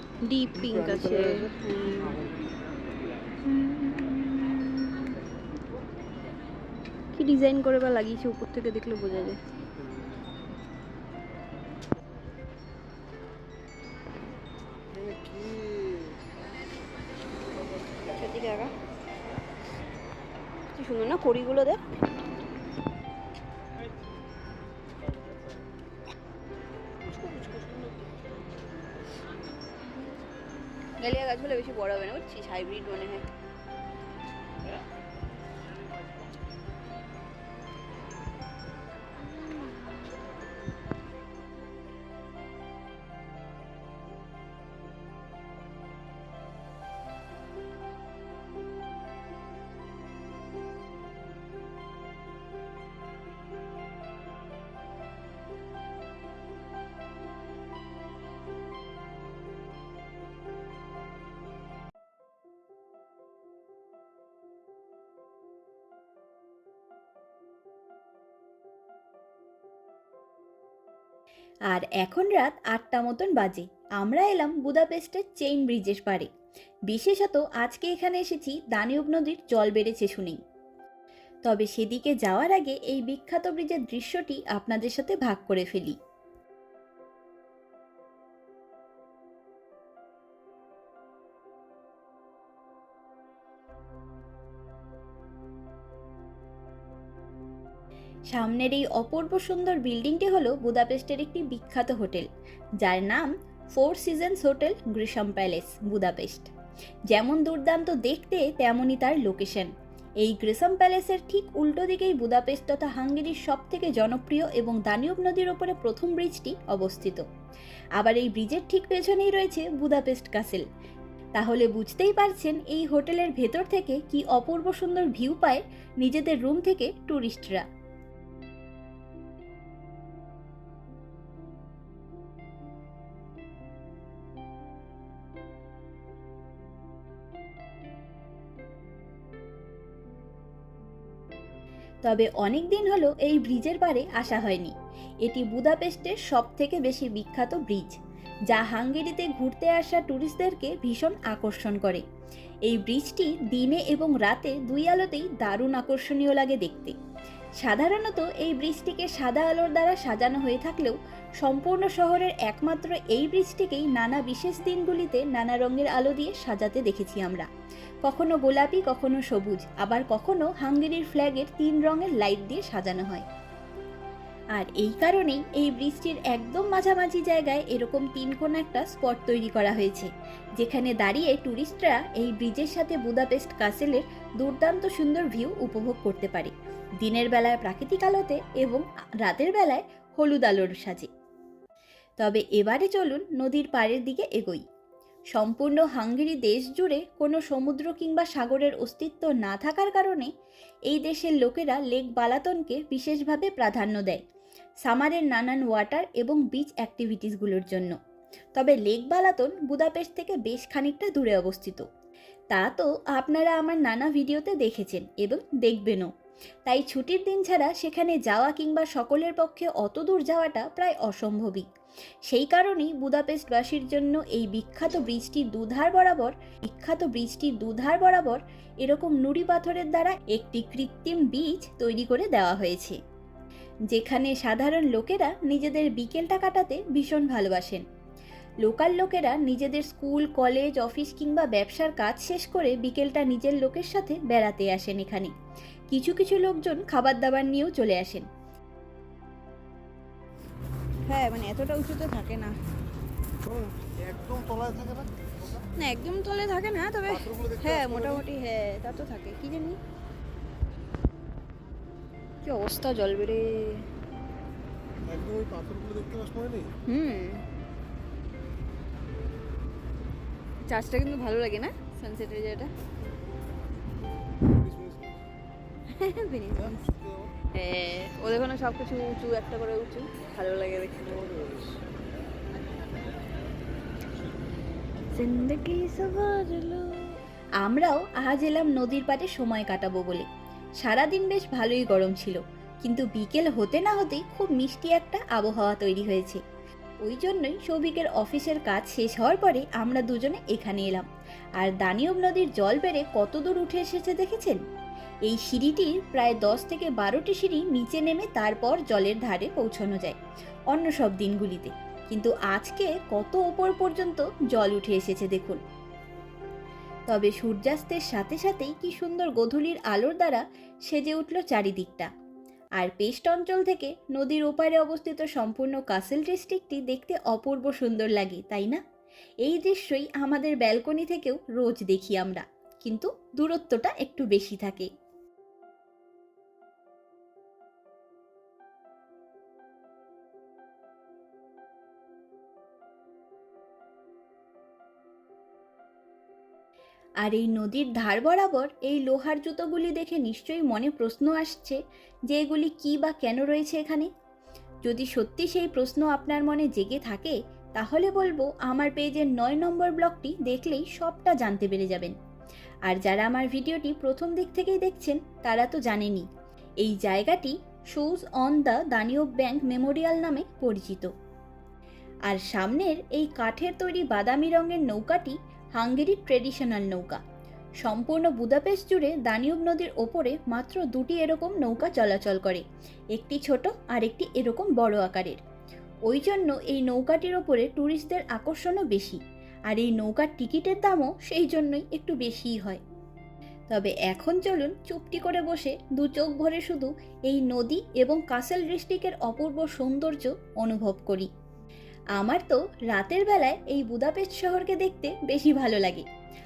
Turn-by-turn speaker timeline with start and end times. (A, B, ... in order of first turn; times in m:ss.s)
0:00.2-0:02.2 A
0:00.6-0:01.6 B
0:03.7-0:04.3 A
0:07.1-0:09.4 A
0:14.9-0:16.2 B
0:18.1-0:18.7 A
0:20.7-0:21.8 A
0:27.0-0:28.1 A
0:31.0-0:33.3 A
1:11.7-1:16.3 C
1:16.9-1:20.4 C
1:21.4-1:26.0 C
1:38.3-1:42.3 C
1:42.8-1:46.5 C
1:47.1-1:57.2 C
1:58.0-2:00.6 C
2:01.4-2:07.6 C
2:22.0-2:28.0 C
2:28.5-2:32.0 C
2:32.6-2:37.0 C
2:37.6-2:47.5 C
2:48.0-2:53.2 C
2:54.5-3:11.1 C
3:12.2-3:14.6 C
3:15.3-3:20.3 C
3:20.9-3:24.2 C
3:24.8-3:28.0 C
3:28.5-3:31.9 C
3:32.5-3:36.1 C
3:36.6-3:41.7 C
3:42.3-3:53.0 C
3:53.9-3:57.8 C
3:58.6-4:05.3 C
4:05.9-4:08.2 C
4:11.0-4:12.5 A
4:13.4-4:15.7 B
4:15.8-4:19.8 A
4:17.1-4:18.2 B
4:22.4-4:23.9 A
4:25.0-4:26.8 B
4:26.8-4:27.4 A
4:30.6-4:32.7 A
4:34.4-4:35.2 B
4:35.9-4:36.8 A
4:36.5-4:37.4 B
4:37.5-4:41.3 A
4:41.0-4:41.8 B
4:45.1-4:47.2 A
4:47.6-4:50.3 C
4:50.8-4:56.4 C
4:57.0-5:01.1 C
5:01.6-5:04.6 C
5:05.2-5:10.2 C
5:10.7-5:15.6 C
5:17.1-5:22.1 C
5:22.8-5:28.8 C
5:29.4-5:34.9 C
5:47.2-5:54.1 C
5:54.8-6:02.1 C
6:02.9-6:06.3 C
6:06.8-6:11.1 C
6:12.3-6:17.2 C
6:17.8-6:25.4 C
6:26.1-6:32.8 C
6:33.7-6:41.3 C
6:42.2-6:46.0 C